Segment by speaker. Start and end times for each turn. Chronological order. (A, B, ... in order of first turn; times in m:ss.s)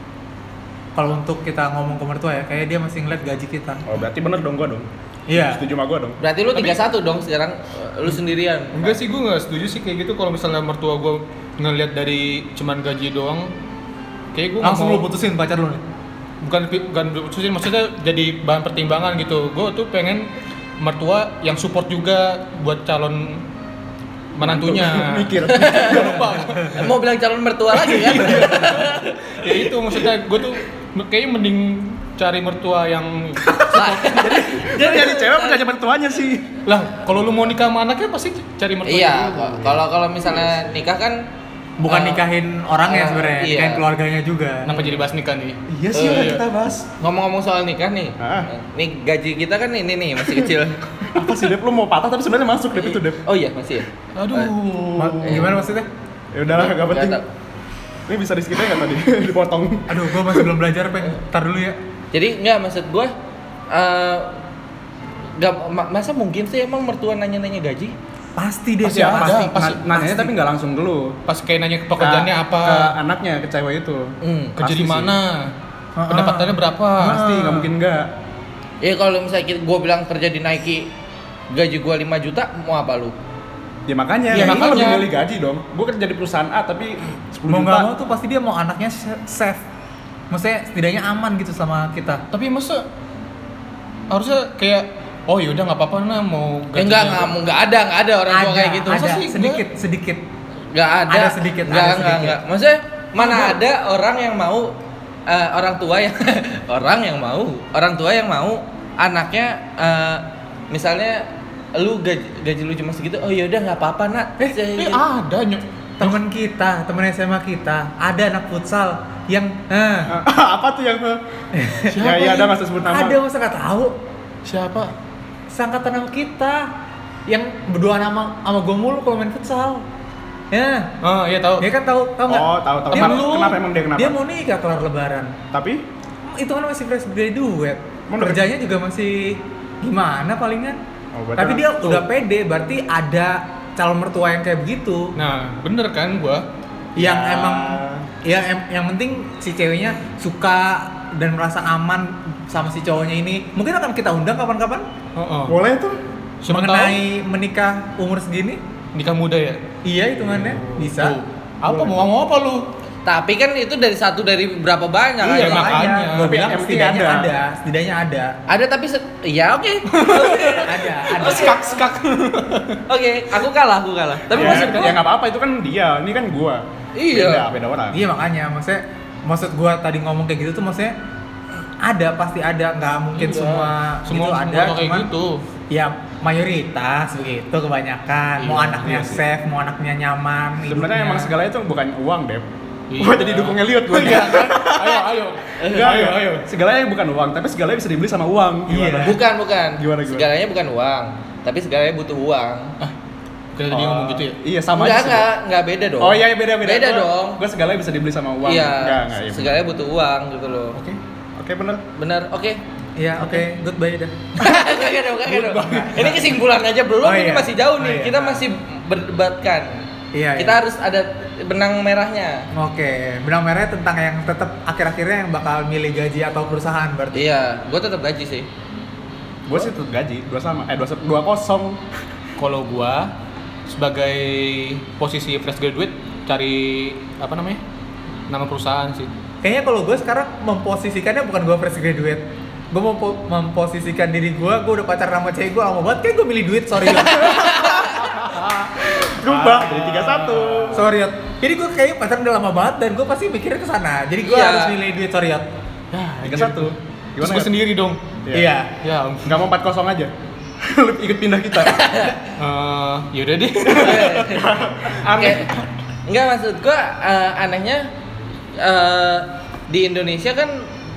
0:00.9-0:03.8 A
0:03.8-0:06.2 B
0:05.3-0:05.6 A
0:06.2-0:09.0 C
0:08.7-0:13.5 D
0:14.3-0:15.1 D
0:14.6-0:15.8 A
0:16.4-0:20.3 D
0:20.8-0:23.4 D
0:24.3-0:26.9 D
0:24.4-0:26.3 B
0:25.5-0:26.2 C
0:26.7-0:29.7 C
0:27.8-0:34.3 D
0:28.1-0:28.8 B
0:33.7-0:35.6 C
0:34.0-0:36.6 B
0:36.6-0:39.8 D
0:38.8-0:41.2 C
0:41.8-0:44.7 A
0:41.9-0:42.2 C
0:42.8-0:43.8 C
0:44.6-0:46.4 D
0:45.7-0:46.9 B
0:45.9-0:46.4 C
0:47.0-0:50.8 C
0:48.2-0:48.5 B
0:51.1-0:53.2 B
0:52.8-0:54.5 C
0:54.1-0:55.5 D
0:55.0-0:55.9 A
0:55.2-0:55.5 C
0:56.3-0:57.2 B
0:56.5-0:57.2 C
0:58.1-1:00.5 B
0:59.9-1:01.8 A
1:02.1-1:03.1 C
1:03.7-1:04.3 C
1:05.4-1:08.0 C
1:08.4-1:10.3 A
1:08.8-1:11.2 B
1:08.9-1:09.8 D
1:11.2-1:12.9 D
1:12.0-1:15.1 B
1:14.2-1:14.8 C
1:14.6-1:15.5 D
1:16.0-1:16.6 A
1:16.1-1:17.7 D
1:17.0-1:18.1 B
1:18.8-1:20.9 C
1:21.5-1:23.1 C
1:23.9-1:27.9 B
1:24.3-1:25.0 A
1:24.3-1:25.1 D
1:27.5-1:29.6 A
1:30.3-1:32.2 A
1:32.3-1:32.8 D
1:34.1-1:37.3 D
1:36.8-1:39.2 C
1:38.3-1:40.2 A
1:38.9-1:39.6 D
1:40.7-1:44.7 C
1:41.1-1:42.4 A
1:43.2-1:43.6 A
1:45.3-1:55.0 C
1:54.4-1:56.1 D
1:56.0-2:00.1 A
2:00.1-2:01.2 B
2:01.5-2:04.0 A
2:01.9-2:02.5 D
2:02.0-2:03.2 B
2:04.4-2:04.9 D
2:05.5-2:06.7 A
2:07.3-2:09.8 A
2:10.5-2:10.9 A
2:11.0-2:11.7 D
2:11.6-2:15.4 A
2:12.3-2:14.2 B
2:12.9-2:13.5 D
2:15.5-2:15.8 B
2:16.3-2:20.8 A
2:18.1-2:18.4 B
2:21.1-2:22.0 B
2:21.4-2:25.1 A
2:25.2-2:26.4 D
2:27.0-2:28.0 B
2:27.0-2:34.8 A
2:35.2-2:35.6 D
2:35.5-2:36.0 B
2:36.4-2:37.0 D
2:36.5-2:38.6 A
2:38.9-2:39.6 D
2:39.8-2:41.2 A
2:40.2-2:42.7 D
2:43.0-2:45.8 C
2:45.2-2:46.4 D
2:45.2-2:48.3 A
2:46.1-2:47.3 B
2:48.5-2:51.8 C
2:49.9-2:52.8 D
2:50.6-2:51.6 A
2:52.9-2:54.9 C
2:54.3-2:58.1 B
2:54.3-2:54.9 D
2:57.0-2:57.5 C
2:57.9-3:00.9 A
3:01.8-3:05.1 A
3:03.1-3:05.4 D
3:05.7-3:11.3 A
3:08.4-3:09.2 D
3:08.8-3:09.2 B
3:10.6-3:15.1 B
3:12.9-3:16.5 D
3:15.6-3:15.9 C
3:15.6-3:19.2 B
3:18.7-3:19.2 A
3:19.0-3:22.8 C
3:19.8-3:20.3 B
3:23.5-3:24.4 D
3:23.7-3:25.3 B
3:24.8-3:27.4 C
3:26.0-3:29.6 B
3:28.4-3:30.8 C
3:31.4-3:31.8 B
3:32.0-3:32.6 C
3:33.0-3:34.3 A
3:34.4-3:42.5 C
3:35.4-3:36.2 D
3:35.6-3:36.3 A
3:37.0-3:38.4 A
3:40.1-3:40.6 A
3:42.5-3:47.2 A
3:47.1-3:48.5 C
3:49.4-3:51.8 B
3:52.4-3:53.1 D
3:53.7-3:57.6 D
3:58.3-3:59.1 D
3:59.4-4:07.9 A
4:06.9-4:08.0 C
4:08.0-4:10.8 D
4:08.8-4:10.8 B
4:10.7-4:15.4 A
4:14.2-4:14.8 C
4:15.9-4:18.0 D
4:16.2-4:17.6 B
4:18.2-4:18.5 B
4:18.3-4:18.7 A
4:18.8-4:19.4 D
4:19.2-4:21.9 B
4:21.6-4:22.3 C
4:22.4-4:24.4 D
4:23.6-4:25.5 B
4:23.7-4:24.5 C
4:25.1-4:25.5 C
4:26.1-4:27.9 C
4:28.6-4:30.7 C